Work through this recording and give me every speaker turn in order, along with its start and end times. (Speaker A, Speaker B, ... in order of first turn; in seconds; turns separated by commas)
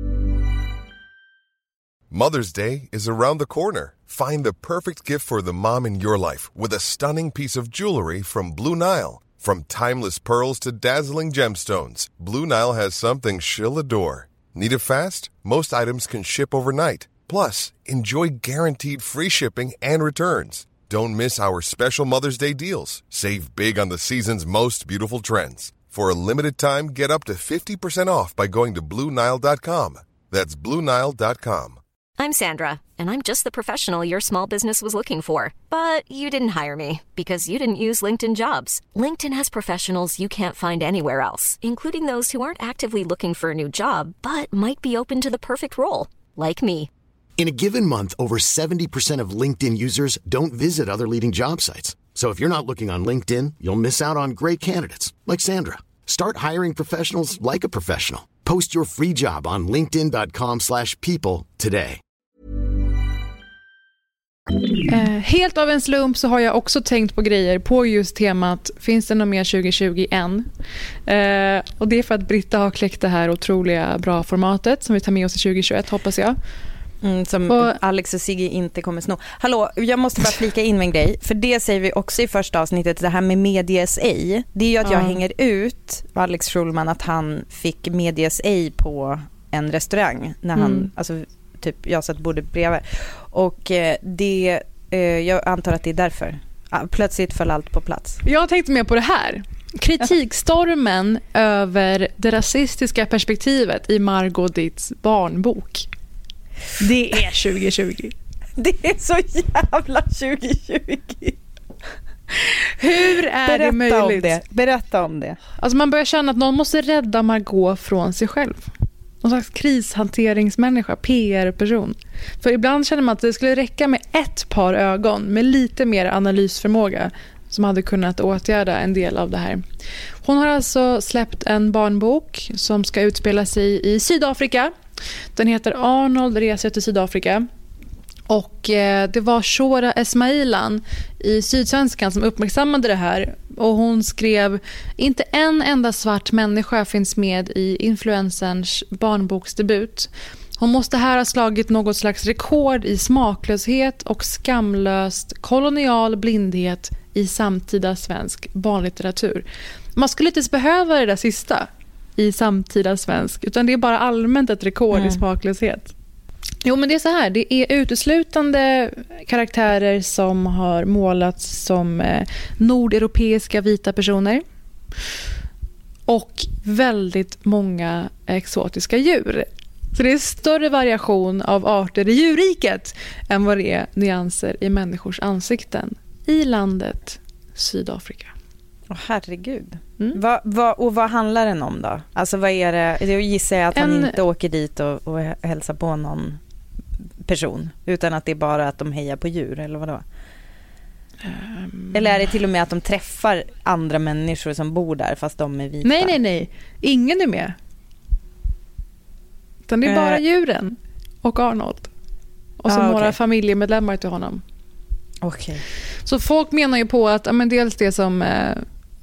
Speaker A: 2.1-31.8, Speaker B: 32.2-46.9, Speaker C: 47.4-62.0, Speaker D: 64.9-70.5, Speaker D: 71.1-76.4, Speaker E: 77.0-98.2, Speaker D: 77.5-77.7, Speaker D: 84.8-85.2, Speaker D: 90.5-90.9, Speaker D: 98.2-105.9, Speaker D: 106.8-108.1, Speaker E: 108.6-111.4, Speaker D: 112.4-114.4, Speaker E: 113.4-115.4, Speaker D: 115.6-118.7, Speaker D: 119.2-129.6, Speaker D: 130.2-134.7, Speaker D: 135.3-137.5, Speaker D: 138.3-159.4, Speaker D: 159.9-165.9, Speaker E: 164.9-165.2, Speaker D: 166.6-174.4, Speaker D: 176.1-188.3, Speaker E: 188.9-196.4, Speaker D: 193.7-194.2, Speaker E: 197.2-200.0, Speaker D: 201.2-202.2, Speaker E: 201.9-206.2, Speaker D: 205.8-207.5, Speaker D: 209.7-211.9, Speaker E: 209.8-210.2, Speaker D: 212.6-214.4, Speaker E: 212.7-213.1, Speaker E: 215.2-215.6, Speaker D: 216.1-218.6